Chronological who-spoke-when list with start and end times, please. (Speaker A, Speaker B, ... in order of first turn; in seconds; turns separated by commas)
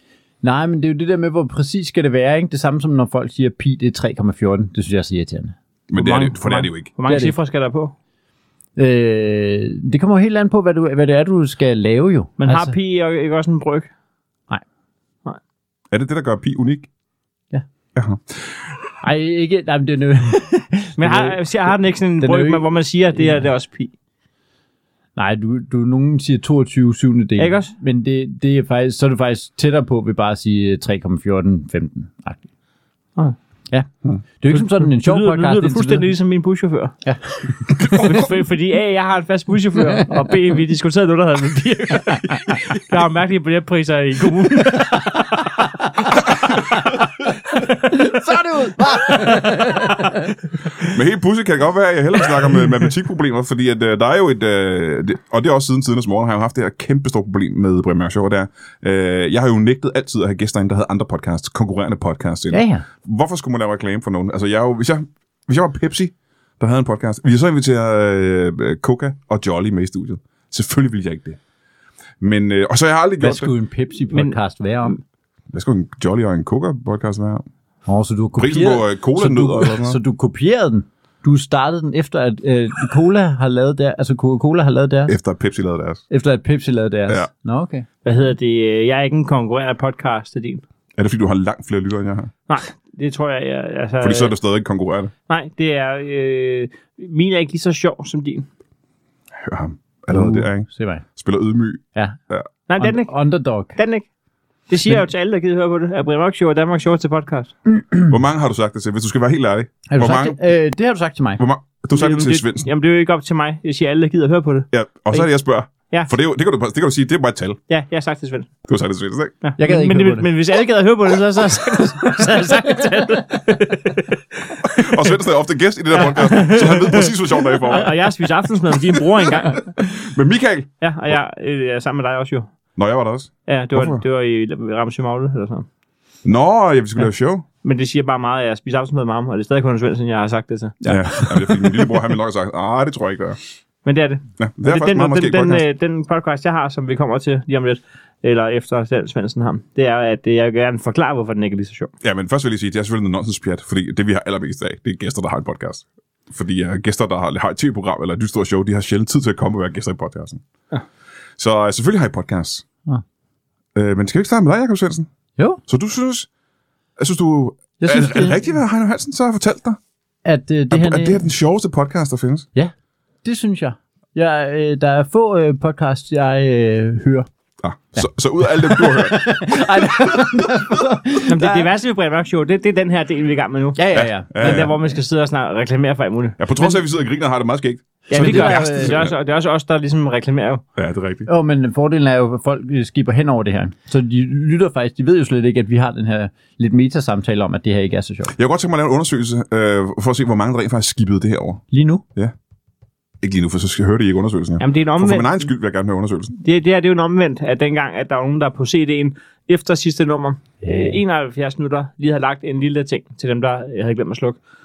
Speaker A: 0.4-7.3, Speaker B: 5.9-6.9, Speaker C: 6.0-7.9, Speaker A: 8.8-12.7, Speaker C: 12.4-13.9, Speaker B: 15.9-16.9, Speaker B: 17.9-18.4, Speaker A: 19.0-22.7, Speaker C: 21.0-23.9, Speaker A: 25.2-32.4, Speaker C: 27.4-27.7, Speaker A: 34.4-36.1, Speaker C: 34.5-37.0, Speaker A: 37.0-38.3, Speaker B: 37.8-38.1, Speaker C: 38.0-45.5, Speaker A: 39.8-40.3, Speaker A: 42.1-42.8, Speaker A: 44.6-47.0, Speaker A: 47.6-50.3, Speaker C: 48.9-49.4, Speaker B: 50.9-71.4, Speaker A: 62.5-62.9, Speaker B: 72.2-73.5, Speaker A: 73.2-75.0, Speaker C: 74.1-74.4, Speaker B: 75.5-77.4, Speaker A: 77.9-85.2, Speaker B: 78.4-80.0, Speaker B: 85.1-86.0, Speaker A: 86.1-87.9, Speaker C: 88.0-90.6, Speaker B: 91.0-92.3, Speaker C: 92.5-94.3, Speaker B: 94.0-95.1, Speaker C: 95.3-98.5, Speaker B: 99.4-102.5, Speaker A: 100.1-101.0, Speaker C: 102.7-103.1, Speaker A: 102.8-103.8, Speaker C: 103.8-104.0, Speaker C: 104.7-107.5, Speaker B: 108.1-110.4, Speaker A: 109.9-111.4, Speaker B: 111.4-112.7, Speaker C: 111.9-115.3, Speaker B: 114.7-117.6, Speaker C: 117.7-118.6, Speaker B: 118.7-119.3, Speaker C: 119.4-125.0, Speaker A: 119.6-120.3, Speaker B: 124.6-128.2, Speaker C: 125.9-129.7, Speaker B: 128.7-130.7, Speaker C: 130.8-132.5, Speaker B: 132.8-134.0, Speaker C: 133.5-135.7, Speaker B: 136.2-137.5, Speaker C: 137.6-140.8, Speaker A: 140.8-142.0, Speaker B: 140.9-143.4, Speaker C: 143.8-151.9, Speaker B: 144.4-145.6, Speaker B: 152.0-160.4, Speaker B: 161.4-162.7, Speaker B: 163.8-165.1, Speaker B: 165.7-166.3, Speaker B: 167.0-169.8, Speaker A: 167.8-168.4, Speaker A: 170.2-171.2, Speaker B: 170.7-172.5, Speaker A: 173.2-177.3, Speaker B: 177.6-180.4, Speaker A: 178.0-181.7, Speaker C: 181.3-186.4, Speaker A: 183.8-184.8, Speaker B: 183.9-184.8, Speaker B: 186.4-189.1, Speaker A: 188.1-189.0, Speaker C: 188.1-190.6, Speaker B: 190.8-191.3, Speaker A: 191.3-198.3, Speaker B: 198.3-201.6, Speaker A: 201.7-202.0, Speaker B: 203.2-206.4, Speaker C: 204.6-205.5, Speaker C: 206.4-214.4